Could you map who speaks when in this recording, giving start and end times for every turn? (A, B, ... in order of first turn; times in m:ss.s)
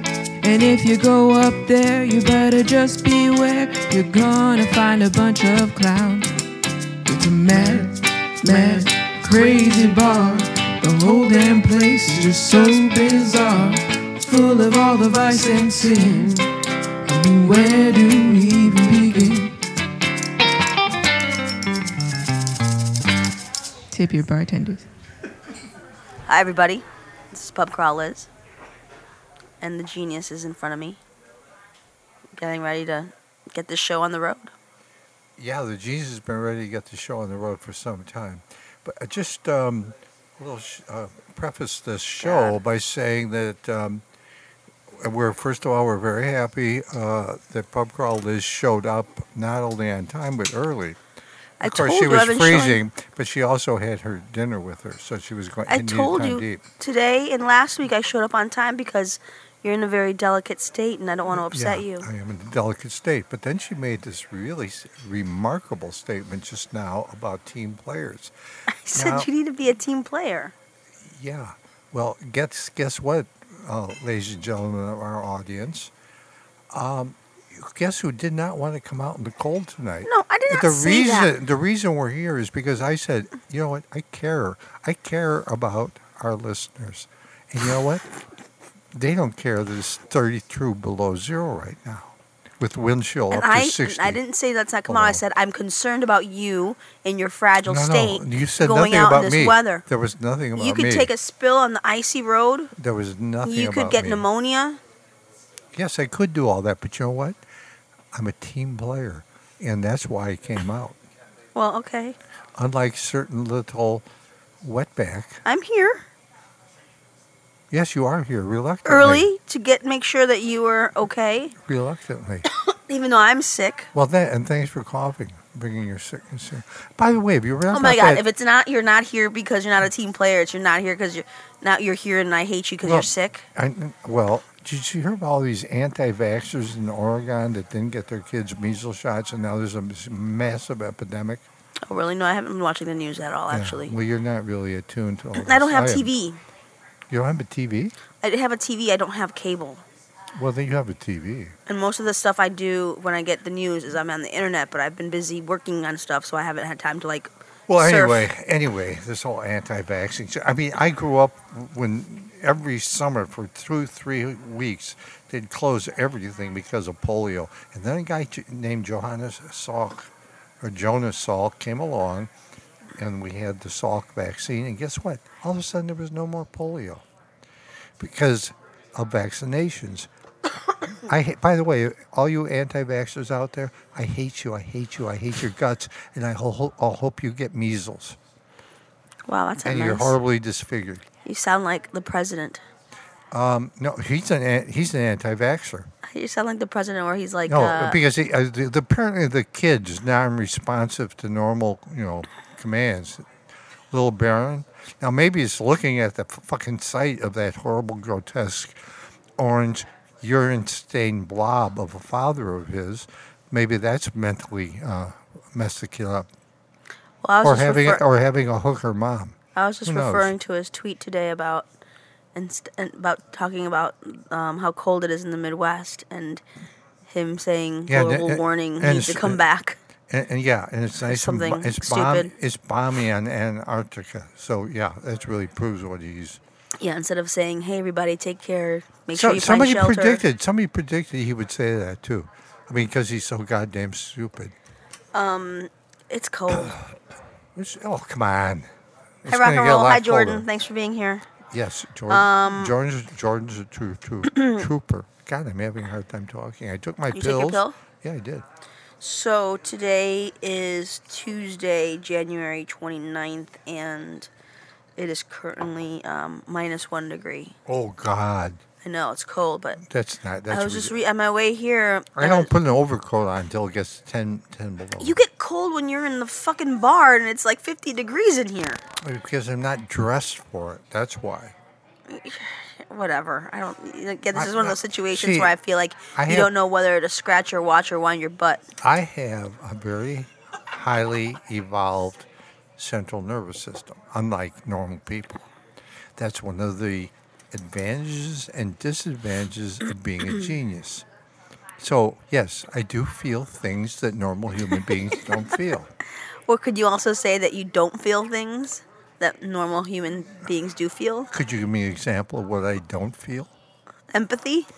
0:00.4-0:06.3 A
0:07.0-0:16.5 A
0:17.0-0:19.5 A
0:23.9-0:24.9 A
0:26.3-0:28.3 B
0:29.6-0:31.0 B
0:32.4-0:34.5 B
0:35.4-0:44.0 C
0:42.2-0:42.6 B
0:44.9-0:51.0 C
0:51.6-0:52.8 B
0:51.6-0:56.6 C
0:55.7-1:02.1 B
1:01.3-1:08.3 C
1:08.7-1:10.5 B
1:08.9-1:09.3 C
1:11.0-1:15.9 C
1:16.7-1:28.0 C
1:20.0-1:21.3 B
1:28.9-1:34.2 C
1:33.3-1:39.8 B
1:34.9-1:35.2 C
1:37.6-1:41.1 C
1:40.6-1:42.7 B
1:42.7-1:44.2 C
1:43.4-1:44.8 B
1:45.7-1:47.4 C
1:48.1-1:51.0 C
1:51.5-1:52.2 B
1:52.6-1:54.0 C
1:54.6-1:55.4 C
1:55.4-1:56.0 B
1:57.7-1:59.3 C
1:58.8-2:01.5 B
2:01.6-2:02.4 C
2:02.5-2:03.9 B
2:03.9-2:08.2 C
2:07.7-2:13.4 B
2:12.8-2:21.4 C
2:21.9-2:23.9 B
2:23.5-2:26.1 C
2:25.3-2:26.4 B
2:27.1-2:27.9 C
2:28.2-2:29.8 B
2:30.3-2:31.5 C
2:31.7-2:38.3 B
2:37.7-2:52.3 C
2:52.9-2:57.0 C
2:58.0-3:00.1 C
3:01.0-3:08.2 C
3:09.3-3:10.2 B
3:09.6-3:11.0 C
3:11.2-3:12.6 B
3:13.3-3:15.9 C
3:16.0-3:18.0 B
3:17.4-3:23.3 C
3:23.9-3:36.3 C
3:37.2-3:38.0 B
3:37.4-3:40.3 C
3:39.5-3:41.7 B
3:42.3-3:46.4 B
3:47.0-3:49.8 B
3:47.9-3:49.4 C
3:50.1-3:56.4 C
3:51.0-3:52.3 B
3:56.8-4:00.2 B
3:59.1-4:04.5 C
4:05.1-4:06.8 B
4:06.5-4:06.8 C
4:07.5-4:08.7 C
4:09.2-4:10.4 C
4:09.3-4:11.2 B
4:11.5-4:18.4 C
4:12.1-4:12.7 B
4:17.1-4:17.8 B
4:19.0-4:24.3 B
4:25.0-4:27.6 B
4:27.6-4:28.6 C
4:28.8-4:29.8 B
4:29.8-4:31.0 C
4:30.5-4:32.5 B
4:32.2-4:35.2 C
4:35.0-4:38.8 B
4:39.0-4:41.6 C
4:42.1-4:48.6 B
4:44.3-4:45.6 C
4:46.1-4:46.5 C
4:48.8-4:55.5 C
4:56.2-5:01.0 C
5:01.8-5:05.9 C
5:06.4-5:11.3 B
5:11.3-5:13.5 C
5:14.1-5:14.7 B